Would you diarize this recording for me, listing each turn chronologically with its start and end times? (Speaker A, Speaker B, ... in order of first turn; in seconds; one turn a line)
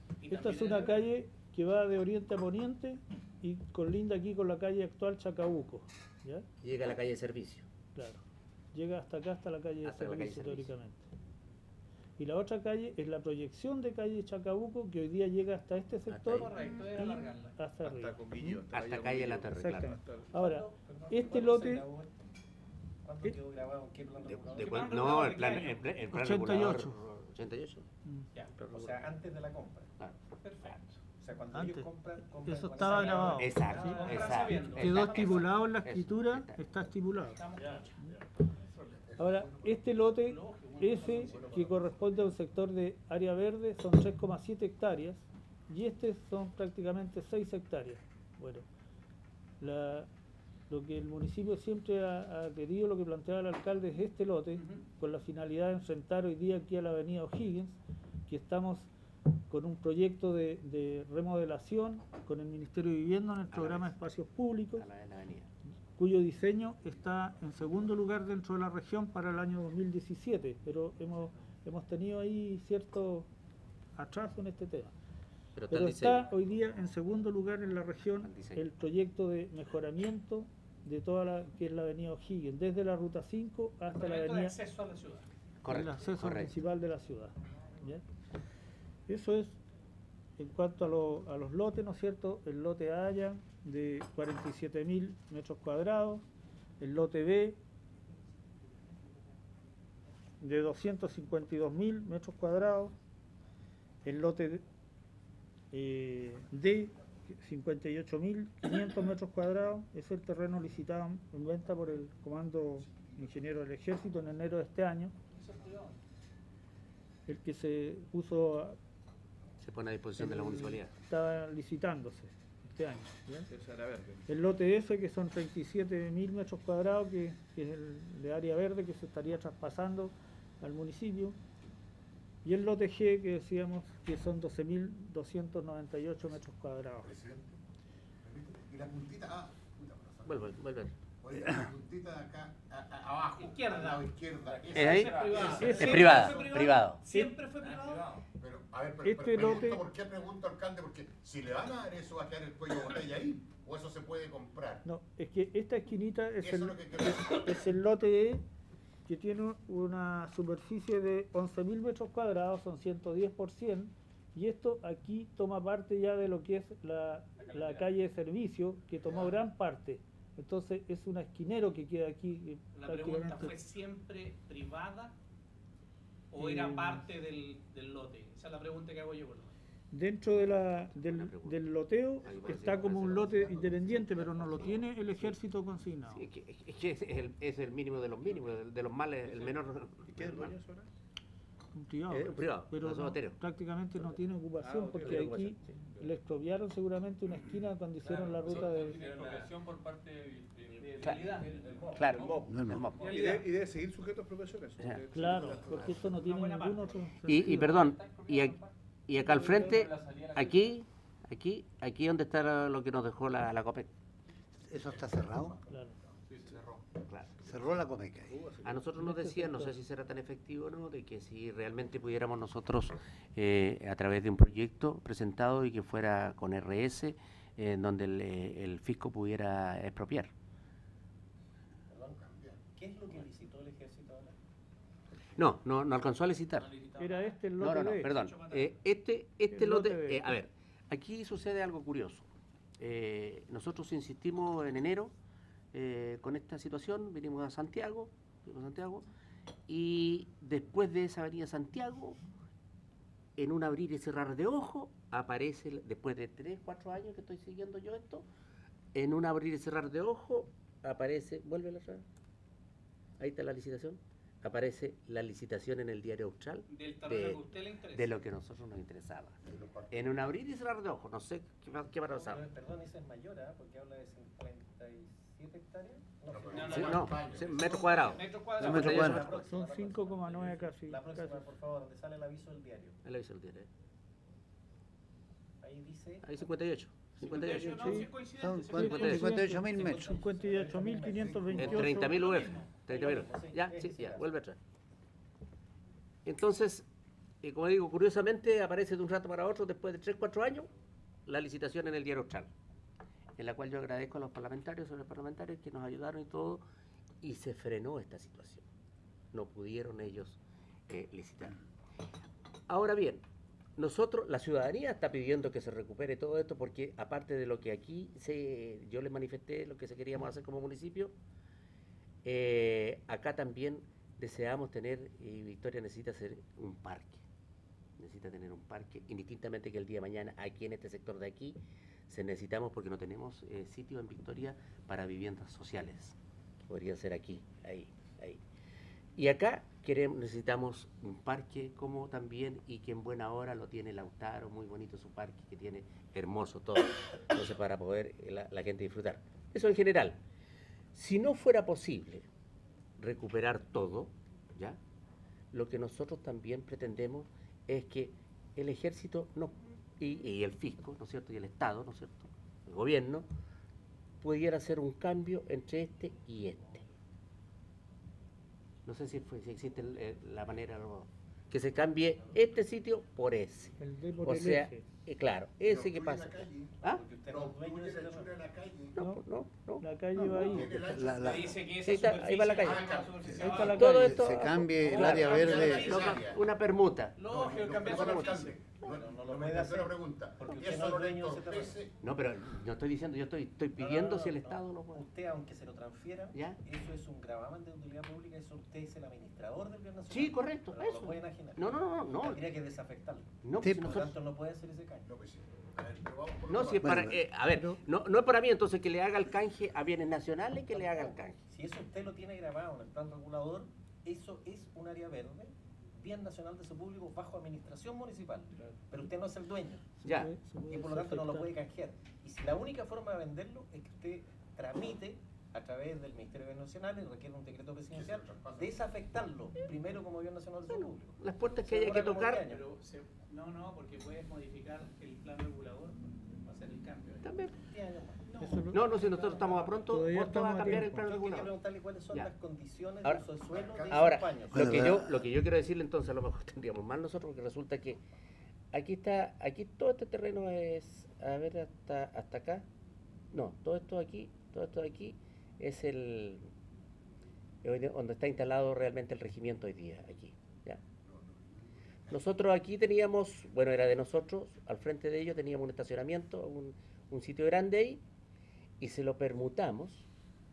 Speaker A: 0.2-1.0
Speaker B: 0.3-6.5
Speaker C: 6.6-7.6
Speaker B: 7.9-11.1
Speaker C: 9.8-10.7
Speaker B: 12.2-18.2
Speaker C: 16.1-16.5
Speaker A: 16.3-17.6
Speaker D: 17.8-20.3
Speaker C: 18.4-20.0
Speaker B: 19.5-21.9
Speaker E: 20.3-22.1
Speaker A: 20.4-20.7
Speaker E: 23.0-25.2
Speaker C: 24.2-27.9
Speaker A: 24.6-25.9
Speaker B: 26.1-27.0
Speaker C: 28.6-28.9
Speaker E: 28.6-29.9
Speaker C: 30.0-30.8
Speaker A: 30.4-31.0
Speaker E: 31.2-34.5
Speaker B: 31.5-31.9
Speaker B: 32.4-37.4
Speaker A: 32.8-35.4
Speaker C: 33.3-36.6
Speaker A: 37.3-37.9
Speaker F: 38.8-40.1
Speaker B: 39.2-48.7
Speaker A: 40.2-41.8
Speaker E: 40.8-41.8
Speaker B: 49.6-50.1
Speaker B: 50.7-57.8
Speaker A: 54.5-54.8
Speaker B: 58.3-58.9
Speaker B: 59.5-64.8
Speaker C: 63.5-63.9
Speaker C: 64.8-65.5
Speaker B: 66.0-73.3
Speaker B: 74.0-74.9
Speaker C: 75.5-76.3
Speaker B: 75.7-84.6
Speaker C: 78.2-78.6
Speaker A: 83.9-85.3
Speaker C: 85.6-86.5
Speaker B: 85.7-88.0
Speaker B: 89.1-89.6
Speaker B: 90.4-96.2
Speaker B: 96.8-97.6
Speaker B: 100.4-102.9
Speaker B: 104.0-104.6
Speaker B: 105.7-115.2
Speaker A: 115.4-116.0
Speaker B: 117.3-118.8
Speaker C: 119.6-120.9
Speaker B: 120.2-123.5
Speaker D: 123.5-124.2
Speaker B: 124.3-131.4
Speaker B: 132.4-137.1
Speaker F: 137.0-137.6
Speaker F: 138.2-140.5
Speaker C: 140.2-140.9
Speaker F: 141.2-145.8
Speaker A: 143.4-144.1
Speaker A: 144.7-148.2
Speaker C: 144.7-147.0
Speaker B: 145.4-146.3
Speaker B: 147.1-147.3
Speaker F: 148.4-154.8
Speaker B: 149.0-149.8
Speaker B: 154.8-158.4
Speaker F: 156.4-157.8
Speaker B: 159.1-173.6
Speaker A: 167.4-167.9
Speaker A: 172.7-175.1
Speaker A: 176.3-179.5
Speaker B: 176.3-177.1
Speaker B: 179.9-186.2
Speaker C: 181.0-181.6
Speaker C: 182.2-184.7
Speaker C: 186.1-190.5
Speaker D: 190.1-190.9
Speaker B: 191.7-199.0
Speaker C: 192.1-193.4
Speaker D: 194.6-195.5
Speaker C: 195.0-195.6
Speaker G: 198.2-202.3
Speaker A: 198.4-199.3
Speaker A: 200.7-201.8
Speaker C: 201.0-201.3
Speaker C: 201.9-203.3
Speaker D: 202.1-206.1
Speaker H: 202.5-202.9
Speaker A: 202.9-203.5
Speaker B: 205.1-207.8
Speaker A: 206.1-208.7
Speaker C: 207.2-213.9
Speaker G: 209.3-210.5
Speaker A: 209.7-210.2
Speaker H: 214.6-215.6
Speaker B: 215.7-215.9
Speaker F: 216.3-216.8
Speaker H: 217.4-218.3
Speaker D: 218.3-218.8
Speaker C: 218.6-230.3
Speaker B: 219.0-219.7
Speaker E: 231.9-234.3
Speaker C: 235.3-236.8
Speaker B: 236.9-238.1
Speaker C: 237.6-242.3
Speaker B: 239.5-240.3
Speaker C: 242.8-245.1
Speaker C: 245.7-249.0
Speaker C: 249.7-252.2
Speaker C: 253.4-258.2
Speaker C: 258.9-262.0
Speaker C: 263.2-269.4
Speaker A: 266.7-268.1
Speaker F: 269.4-270.1
Speaker C: 269.9-272.4
Speaker E: 272.1-277.1
Speaker F: 276.3-278.2
Speaker A: 276.5-279.1
Speaker C: 276.7-279.2
Speaker H: 278.6-279.2
Speaker E: 278.7-283.0
Speaker B: 279.0-281.5
Speaker C: 283.0-283.7
Speaker E: 285.6-286.3
Speaker C: 286.2-288.1
Speaker A: 287.2-289.9
Speaker B: 287.3-288.1
Speaker H: 288.4-290.0
Speaker B: 288.7-292.2
Speaker C: 288.9-289.2
Speaker E: 289.7-292.1
Speaker C: 291.5-294.6
Speaker A: 292.1-292.7
Speaker E: 292.7-294.3
Speaker C: 296.2-296.9
Speaker C: 297.4-300.7
Speaker C: 301.2-302.5
Speaker C: 303.4-306.6
Speaker C: 307.2-308.6
Speaker C: 309.3-311.6
Speaker C: 312.7-313.2
Speaker C: 313.8-321.1
Speaker C: 322.2-327.2
Speaker C: 328.0-331.6
Speaker C: 332.1-336.1
Speaker C: 336.6-338.4
Speaker C: 339.1-350.2
Speaker C: 350.9-352.3
Speaker C: 353.0-354.8
Speaker C: 355.5-363.3
Speaker C: 364.2-366.8
Speaker C: 368.9-377.0
Speaker B: 373.8-374.8
Speaker F: 375.6-379.0
Speaker E: 376.8-378.3
Speaker C: 378.9-379.8
Speaker B: 379.0-379.2
Speaker B: 379.8-380.8
Speaker F: 380.3-381.7
Speaker H: 380.7-381.6
Speaker A: 381.1-384.1
Speaker C: 381.7-387.2
Speaker F: 382.6-383.6
Speaker H: 383.3-386.0
Speaker B: 383.5-384.7
Speaker F: 384.8-386.4
Speaker A: 384.9-386.3
Speaker A: 387.2-388.5
Speaker F: 387.2-391.9
Speaker C: 387.8-388.4
Speaker E: 388.8-391.8
Speaker C: 392.0-395.1
Speaker E: 393.8-405.1
Speaker C: 396.3-396.6
Speaker C: 400.1-402.4
Speaker C: 403.4-404.1
Speaker H: 403.6-404.1
Speaker F: 405.1-407.1
Speaker C: 406.5-411.4
Speaker H: 406.8-407.8
Speaker E: 410.7-419.9
Speaker B: 420.0-421.5
Speaker C: 420.0-420.3
Speaker E: 420.7-432.6
Speaker F: 427.9-428.8
Speaker C: 430.7-432.4
Speaker A: 431.8-437.3
Speaker C: 437.2-437.5
Speaker E: 437.6-438.7
Speaker B: 438.4-438.8
Speaker C: 438.7-441.5
Speaker A: 438.7-439.8
Speaker B: 439.9-441.1
Speaker E: 440.7-444.7
Speaker F: 443.5-444.1
Speaker C: 443.8-448.0
Speaker H: 444.5-445.2
Speaker C: 448.7-452.6
Speaker C: 453.3-456.5
Speaker C: 457.6-460.8
Speaker F: 461.0-462.2
Speaker C: 462.1-468.0
Speaker C: 468.8-470.1